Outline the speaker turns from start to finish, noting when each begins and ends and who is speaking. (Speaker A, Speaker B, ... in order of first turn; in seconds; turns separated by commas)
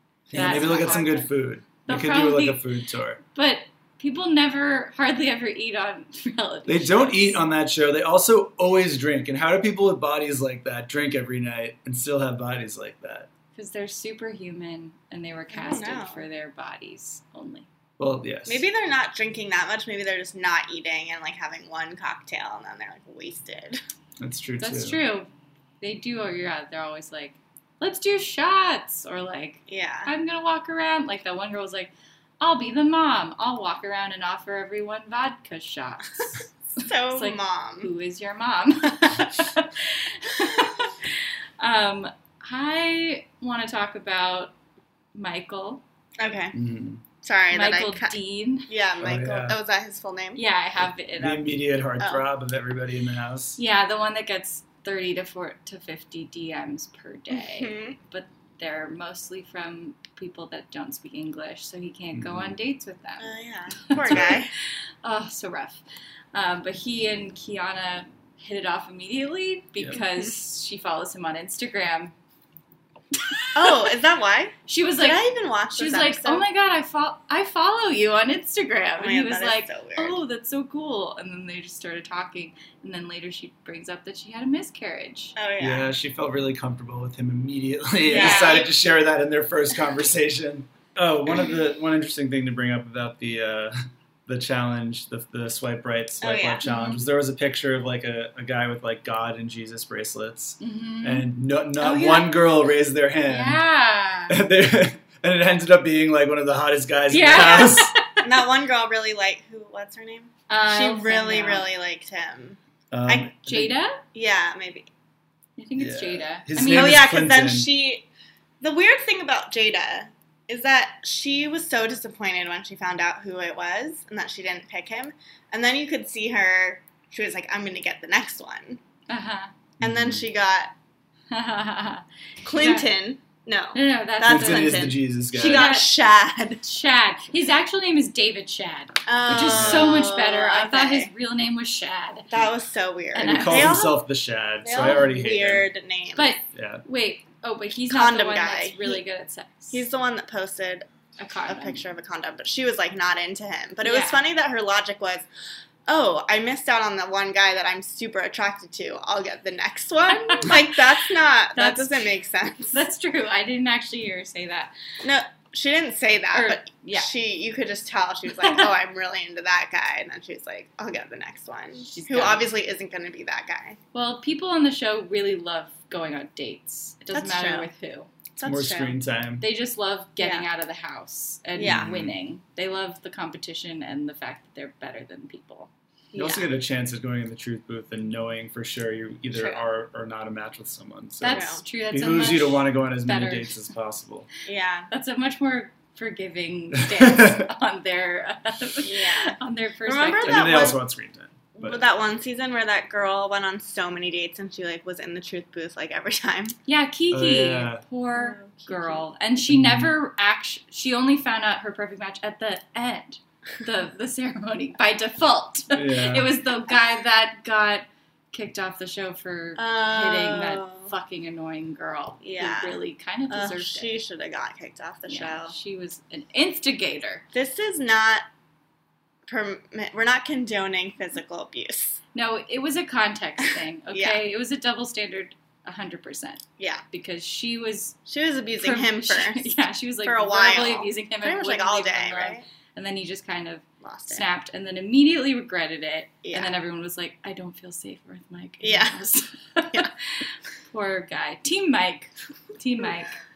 Speaker A: 0.3-1.3, Speaker B: 0.3-3.2, Speaker C: 0.3-1.2, Speaker C: 1.9-2.7, Speaker C: 3.3-7.4, Speaker B: 6.7-13.3, Speaker C: 13.6-17.7, Speaker A: 15.5-16.2, Speaker B: 18.0-18.6, Speaker A: 18.5-23.8, Speaker B: 24.2-25.0, Speaker C: 24.6-25.3, Speaker C: 25.8-36.5, Speaker A: 29.7-30.1, Speaker A: 36.8-37.9, Speaker C: 37.1-44.5, Speaker C: 45.1-45.8, Speaker A: 46.2-46.6, Speaker B: 46.5-47.0, Speaker A: 47.2-48.1, Speaker C: 47.5-48.7, Speaker A: 48.7-50.4, Speaker B: 49.0-49.6, Speaker C: 50.4-51.5, Speaker B: 51.2-53.6, Speaker A: 52.0-52.2, Speaker C: 53.6-63.3, Speaker A: 57.3-58.0, Speaker B: 62.1-62.6, Speaker A: 63.2-64.5, Speaker C: 63.9-64.4, Speaker B: 64.0-64.4, Speaker C: 65.0-65.8, Speaker C: 66.3-72.1, Speaker C: 73.3-73.8, Speaker A: 73.5-76.5, Speaker C: 74.7-75.2, Speaker C: 75.8-85.3, Speaker A: 79.0-80.2, Speaker A: 85.4-85.9, Speaker B: 85.6-103.6, Speaker A: 88.1-88.7, Speaker C: 88.1-88.7, Speaker A: 96.2-96.7, Speaker C: 96.7-97.0, Speaker C: 100.6-101.2, Speaker C: 101.8-102.2, Speaker C: 103.3-104.4, Speaker B: 104.3-107.9, Speaker C: 107.1-108.2, Speaker A: 107.3-113.4, Speaker C: 110.5-111.7, Speaker B: 112.9-113.7, Speaker C: 113.5-114.0, Speaker A: 114.1-114.9, Speaker C: 115.6-117.0, Speaker B: 115.8-117.7, Speaker A: 116.7-118.0, Speaker A: 118.6-128.8, Speaker C: 129.1-129.5, Speaker B: 129.8-130.2, Speaker A: 129.8-130.7, Speaker C: 131.3-132.9, Speaker A: 132.4-136.6, Speaker C: 133.8-135.9, Speaker B: 134.2-135.8, Speaker C: 136.6-142.3, Speaker A: 139.1-141.1, Speaker B: 139.5-139.9, Speaker A: 142.3-144.1, Speaker C: 143.1-143.9, Speaker B: 143.2-145.7, Speaker A: 144.6-146.3, Speaker C: 144.7-145.1, Speaker C: 146.2-149.9, Speaker B: 146.5-146.8, Speaker A: 147.9-149.0, Speaker A: 149.7-150.9, Speaker C: 151.2-151.8, Speaker A: 151.5-155.3, Speaker C: 153.8-154.2, Speaker A: 155.9-162.9, Speaker C: 160.1-160.8, Speaker C: 161.5-162.1, Speaker C: 162.7-164.7, Speaker A: 165.0-173.8, Speaker C: 166.3-167.1, Speaker C: 171.8-172.5, Speaker C: 173.9-178.1, Speaker A: 177.1-177.7, Speaker A: 178.4-179.0, Speaker B: 178.4-179.4, Speaker C: 179.4-185.7, Speaker A: 180.2-180.5, Speaker A: 181.6-181.9, Speaker B: 181.7-182.2, Speaker A: 186.1-186.5, Speaker B: 186.2-194.3, Speaker C: 191.2-193.6, Speaker A: 191.3-191.6, Speaker A: 194.4-194.9, Speaker C: 194.9-200.8, Speaker B: 196.7-197.5, Speaker A: 198.8-200.8, Speaker B: 200.2-201.8, Speaker A: 201.5-206.6, Speaker C: 206.7-223.9, Speaker B: 207.1-207.8, Speaker A: 208.1-209.1, Speaker B: 209.5-209.9, Speaker B: 215.7-216.3, Speaker A: 219.6-220.9, Speaker A: 222.2-225.6, Speaker C: 225.1-227.2, Speaker A: 227.3-228.3, Speaker A: 229.3-232.0, Speaker C: 232.2-238.0, Speaker A: 233.9-234.2, Speaker A: 238.1-239.5, Speaker C: 238.6-253.1, Speaker A: 240.0-242.4, Speaker A: 243.8-244.2, Speaker A: 246.2-246.5, Speaker A: 248.6-249.1